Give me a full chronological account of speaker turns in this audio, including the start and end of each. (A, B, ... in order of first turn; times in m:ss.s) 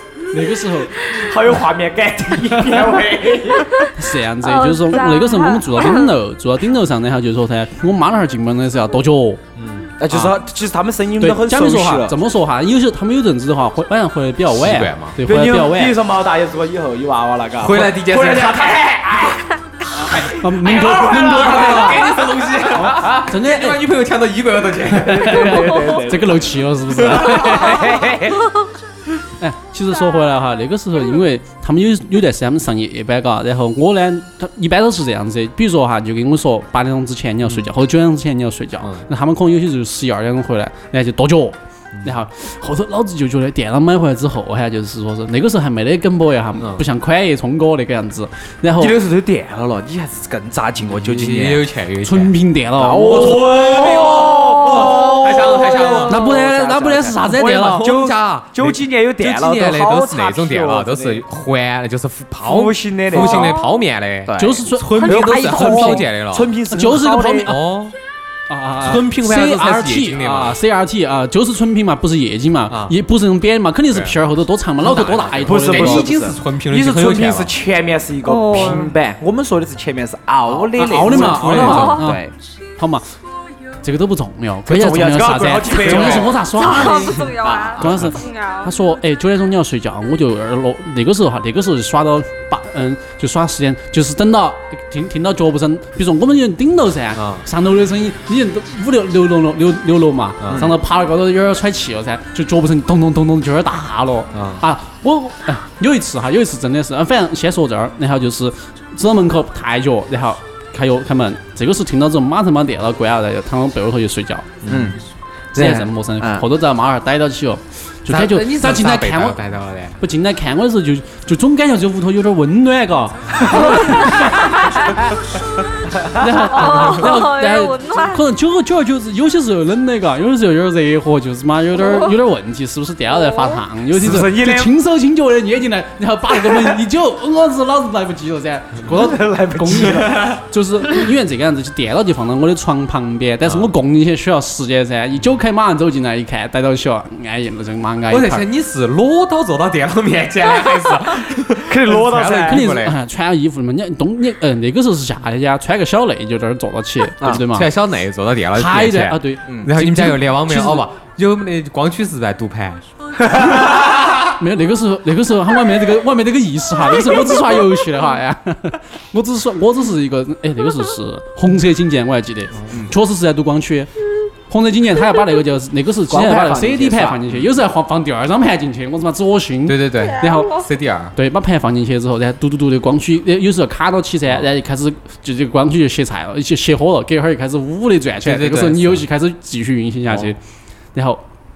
0:00.3-0:01.0 A
0:01.0-0:03.9 B
0:03.6-0:03.9 C
0:03.9-0:09.4 A
0:04.4-0:06.2 C
0:09.6-0:10.0 D
0:10.0-0:12.2 B
0:11.2-0:16.0 A
0:14.5-0:15.2 D
0:15.2-0:22.2 B
0:17.6-0:19.4 D
0:19.9-0:25.8 D
0:20.3-0:22.0 A
0:22.8-0:23.8 A
0:24.9-0:26.6 B
0:25.1-0:28.0 A
0:27.0-0:27.7 D
0:27.1-0:28.5 B
0:29.4-0:49.0 A
0:37.4-0:37.7 D
0:46.6-0:46.8 D
0:48.8-0:51.6 B
0:50.9-0:52.3 D
0:52.0-0:53.5 A
0:52.8-1:01.2 B
0:53.0-0:56.2 D
0:54.0-0:55.3 C
0:56.0-0:57.9 A
0:57.4-1:04.4 D
1:02.4-1:03.6 B
1:03.2-1:03.7 C
1:04.2-1:07.5 B
1:04.4-1:05.4 A
1:04.9-1:06.5 D
1:05.0-1:06.0 C
1:06.7-1:07.6 A
1:07.4-1:08.0 D
1:08.5-1:16.1 A
1:08.8-1:10.6 D
1:12.7-1:12.9 D
1:13.9-1:14.2 D
1:14.8-1:17.6 D
1:15.4-1:22.3 B
1:18.2-1:18.9 C
1:20.8-1:22.2 A
1:21.0-1:22.1 D
1:22.8-1:23.1 A
1:23.8-1:27.2 A
1:24.6-1:26.4 B
1:26.4-1:28.7 C
1:27.4-1:27.8 B
1:27.8-1:54.6 A
1:37.1-1:37.4 D
1:40.4-1:40.8 D
1:44.3-1:44.6 D
1:54.6-1:54.9 D
1:54.6-1:55.0 B
1:55.5-1:59.4 A
1:55.5-1:56.5 B
1:58.1-2:00.0 D
2:00.0-2:05.0 A
2:03.9-2:04.4 C
2:06.1-2:28.4 A
2:06.3-2:08.2 C
2:11.8-2:12.1 C
2:13.1-2:13.6 C
2:13.9-2:14.7 B
2:16.4-2:16.8 B
2:18.9-2:20.4 B
2:23.4-2:23.7 D
2:28.1-2:33.0 D
2:31.6-2:32.7 B
2:32.5-2:37.7 A
2:37.2-2:42.8 D
2:38.5-2:40.8 A
2:43.2-2:43.7 B
2:43.4-2:44.2 D
2:44.4-2:53.9 A
2:52.6-2:52.8 D
2:54.5-3:00.6 A
2:56.1-2:57.2 B
2:59.6-3:01.1 D
3:01.1-3:10.4 A
3:08.2-3:09.0 D
3:10.1-3:10.3 D
3:10.9-3:11.2 A